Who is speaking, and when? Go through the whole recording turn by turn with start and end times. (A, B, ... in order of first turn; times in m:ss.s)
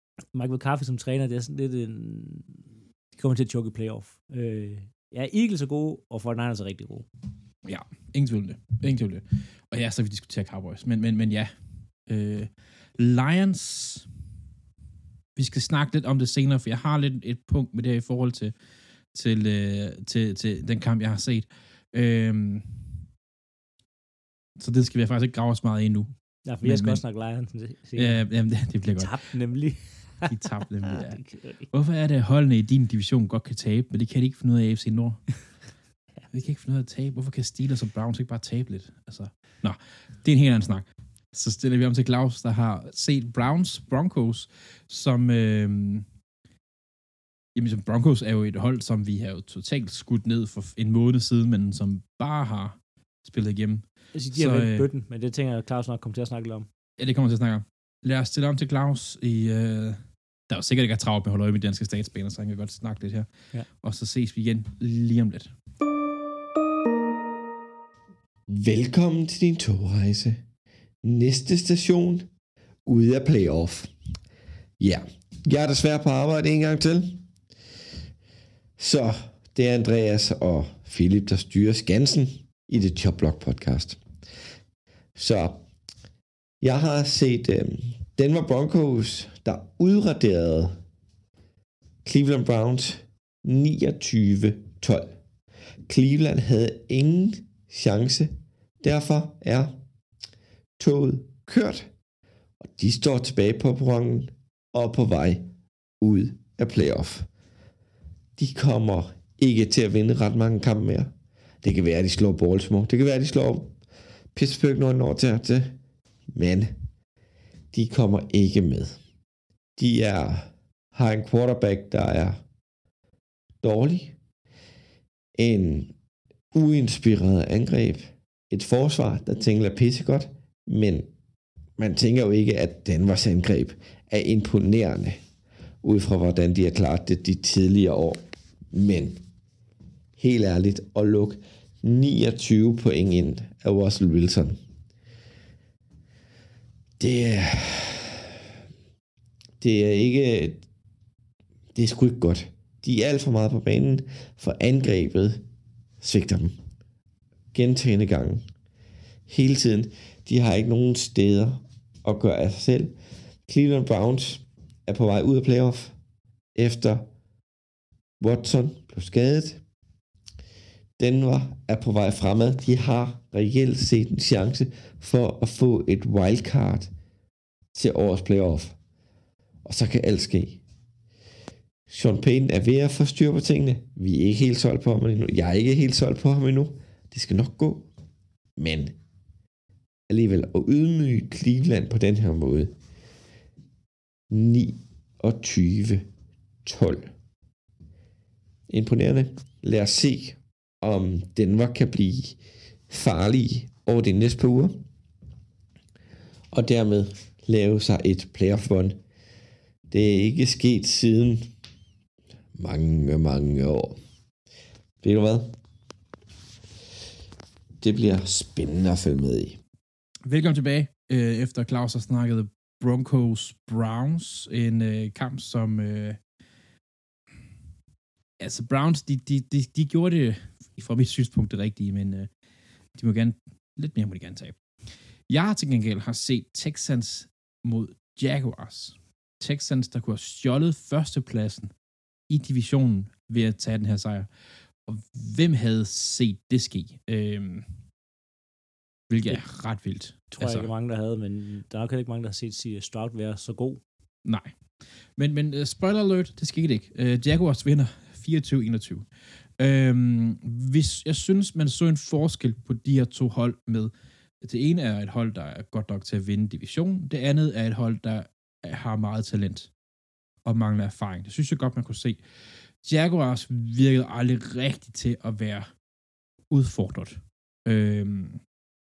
0:00.3-0:07.1 A
0:07.6-0:11.5 B
0:12.1-0:14.1 B
0:15.4-0:18.5 B
0:19.1-0:22.9 B
0:24.6-0:26.1 B
0:26.5-0:28.2 A
0:26.6-0:27.0 B
0:28.0-0:29.2 B
0:29.0-0:31.7 A
0:30.3-0:35.3 B
0:36.3-0:46.0 B
0:47.6-0:54.9 B
0:54.1-0:56.7 A
0:57.0-1:05.5 B
1:08.5-1:10.4 C
1:11.0-1:12.3 C
1:12.9-1:13.9 C
1:14.8-1:17.2 C
1:18.8-1:24.0 C
1:25.2-1:25.6 C
1:26.6-1:30.8 C
1:32.0-1:35.2 C
1:35.9-1:39.8 C
1:40.8-1:41.9 C
1:42.6-1:45.4 C
1:46.0-1:47.3 C
1:48.4-1:53.8 C
1:54.4-1:55.8 C
1:56.3-1:56.8 C
1:57.7-1:59.0 C
1:59.8-2:02.4 C
2:03.6-2:04.2 C
2:05.4-2:05.9 C
2:06.5-2:11.1 C
2:11.8-2:15.2 C
2:15.8-2:19.2 C
2:20.2-2:24.6 C
2:27.0-2:28.4 C
2:29.6-2:30.6 C
2:31.8-2:35.4 C
2:36.0-2:36.6 C
2:37.5-2:38.4 C
2:39.3-2:43.0 C
2:43.5-2:46.0 C
2:46.6-2:47.1 C
2:48.2-2:49.6 C
2:51.0-2:56.9 C
2:57.7-2:58.8 C
2:59.6-3:00.6 C
3:01.9-3:07.9 C
3:08.6-3:09.0 C
3:10.1-3:12.8 C
3:14.3-3:16.1 C
3:16.6-3:17.1 C
3:18.7-3:22.4 C
3:22.9-3:24.8 C
3:26.5-3:29.0 C
3:29.9-3:31.5 C
3:32.6-3:34.0 C
3:35.0-3:35.6 C
3:37.8-3:39.6 C
3:40.3-3:46.2 B
3:48.4-3:52.3 B
3:53.0-3:54.6 B
3:55.3-4:01.7 B
4:02.3-4:04.3 B
4:04.8-4:07.7 B
4:09.1-4:10.7 B
4:10.3-4:13.8 A
4:14.2-4:14.6 B
4:15.2-4:19.1 B
4:19.6-4:29.7 B
4:30.4-4:35.7 B
4:36.5-4:38.4 B